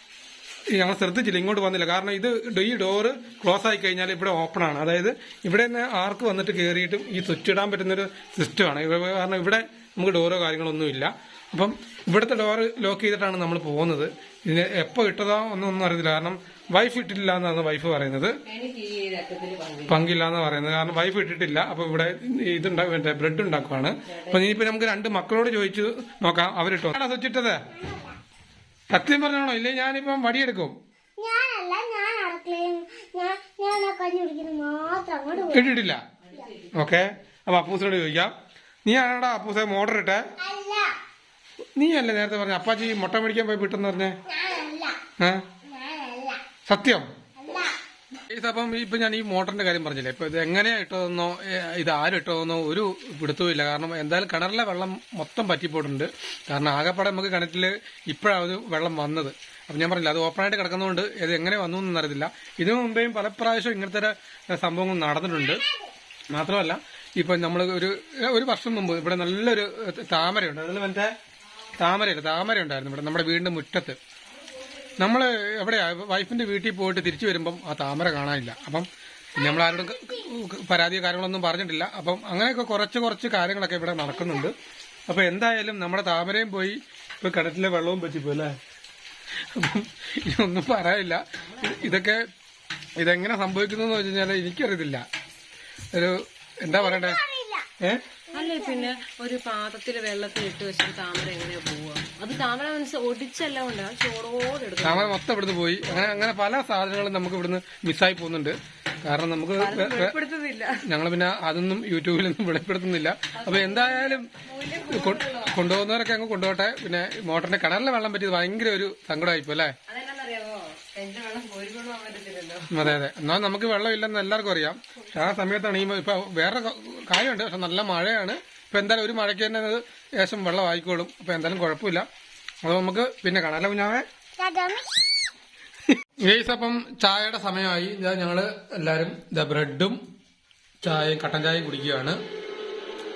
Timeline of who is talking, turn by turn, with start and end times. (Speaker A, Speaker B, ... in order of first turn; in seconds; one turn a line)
Speaker A: 0.7-18.4
Speaker B: 18.5-20.0
Speaker A: 19.9-27.6
Speaker B: 24.1-24.6
Speaker C: 27.8-28.1
Speaker A: 28.9-30.8
Speaker C: 31.2-35.8
Speaker A: 35.4-36.0
Speaker B: 36.2-36.7
Speaker A: 36.7-38.3
Speaker A: 38.9-40.2
Speaker C: 40.4-40.9
Speaker A: 41.8-44.2
Speaker C: 44.3-45.0
Speaker C: 45.7-46.4
Speaker A: 46.7-47.1
Speaker C: 47.4-47.7
Speaker A: 48.3-65.6
Speaker C: 65.5-65.9
Speaker A: 66.3-71.1
Speaker A: 71.8-74.0
Speaker A: 75.0-84.5
Speaker A: 85.1-88.6
Speaker A: 89.5-92.2
Speaker B: 91.4-92.0
Speaker A: 93.0-95.0
Speaker A: 95.9-97.2
Speaker C: 96.7-97.7
Speaker C: 98.3-98.9
Speaker B: 98.3-105.2
Speaker A: 104.8-110.2
Speaker B: 105.9-106.2
Speaker B: 109.6-110.8
Speaker A: 110.8-114.3
Speaker B: 113.4-115.7
Speaker A: 114.9-119.8
Speaker B: 119.9-123.0
Speaker A: 122.7-132.1
Speaker A: 132.6-134.1
Speaker C: 134.4-134.9
Speaker A: 136.2-140.0
Speaker A: 140.8-142.2